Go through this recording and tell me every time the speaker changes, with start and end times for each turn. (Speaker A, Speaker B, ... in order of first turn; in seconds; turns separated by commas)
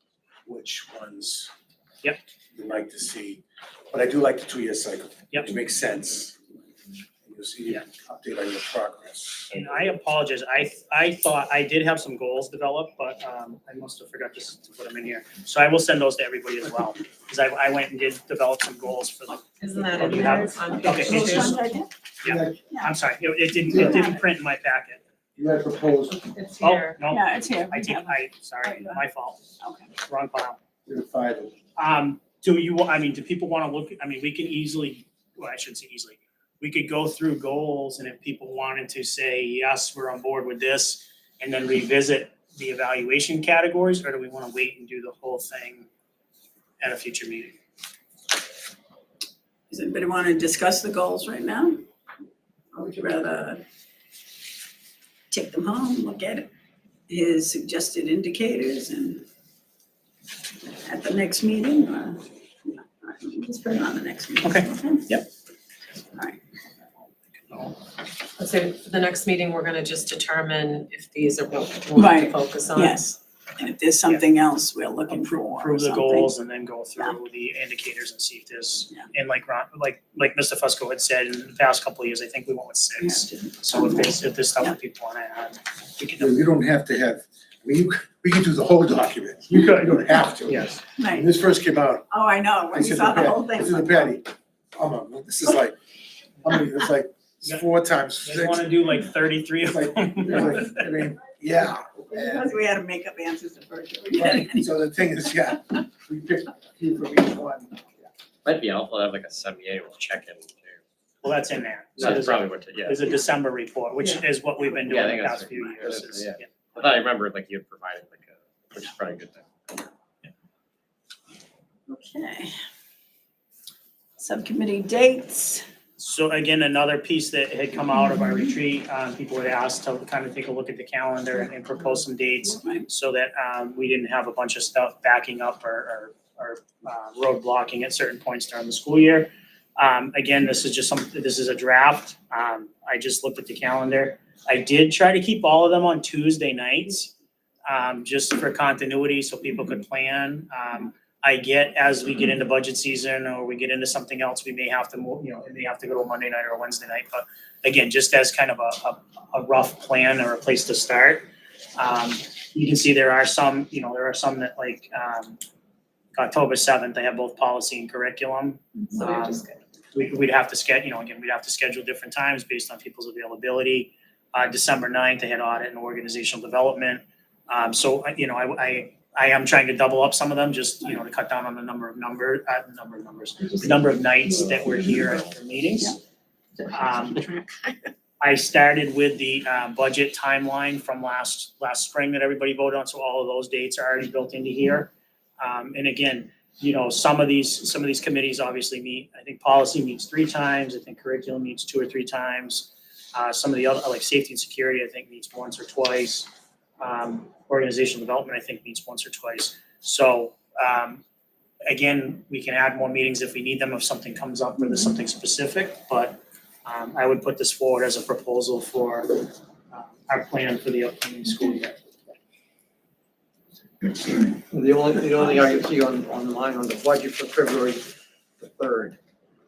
Speaker A: 0.5-1.5, Speaker A: 2.5-6.4, Speaker A: 7.2-9.5, Speaker B: 9.5-21.5, Speaker C: 19.6-21.7, Speaker D: 20.1-21.9, Speaker B: 22.2-25.0, Speaker A: 22.2-22.6, Speaker D: 22.7-22.9, Speaker D: 23.6-24.2, Speaker A: 25.4-26.3, Speaker C: 26.3-27.0, Speaker B: 26.6-29.4, Speaker D: 27.1-29.1, Speaker D: 29.6-29.9, Speaker B: 30.1-30.6, Speaker A: 30.9-31.5, Speaker B: 31.8-45.9, Speaker B: 46.8-47.5, Speaker D: 49.7-51.8, Speaker D: 52.7-53.6, Speaker D: 55.3-56.5, Speaker D: 57.1-59.2, Speaker D: 60.6-65.2, Speaker B: 64.4-65.3, Speaker D: 66.1-66.4, Speaker B: 67.5-67.8, Speaker C: 68.4-73.0, Speaker D: 71.9-76.3, Speaker B: 75.1-86.4, Speaker D: 83.0-84.7, Speaker A: 86.2-92.0, Speaker B: 89.5-90.7, Speaker D: 90.9-91.3, Speaker D: 92.1-94.1, Speaker A: 92.7-95.8, Speaker A: 96.4-98.7, Speaker B: 98.2-100.6, Speaker A: 99.6-102.5, Speaker D: 102.1-104.7, Speaker A: 104.1-107.8, Speaker E: 108.4-110.8, Speaker B: 111.2-116.5, Speaker E: 112.0-113.2, Speaker E: 114.8-119.9, Speaker D: 121.9-122.5, Speaker D: 124.2-125.6, Speaker B: 126.0-147.1, Speaker D: 132.5-132.9, Speaker B: 147.7-165.4, Speaker B: 166.1-169.4, Speaker C: 169.0-169.6, Speaker B: 169.9-186.0, Speaker B: 186.7-187.2, Speaker B: 188.2-206.3, Speaker B: 206.8-211.0, Speaker B: 211.7-221.8, Speaker F: 223.9-229.0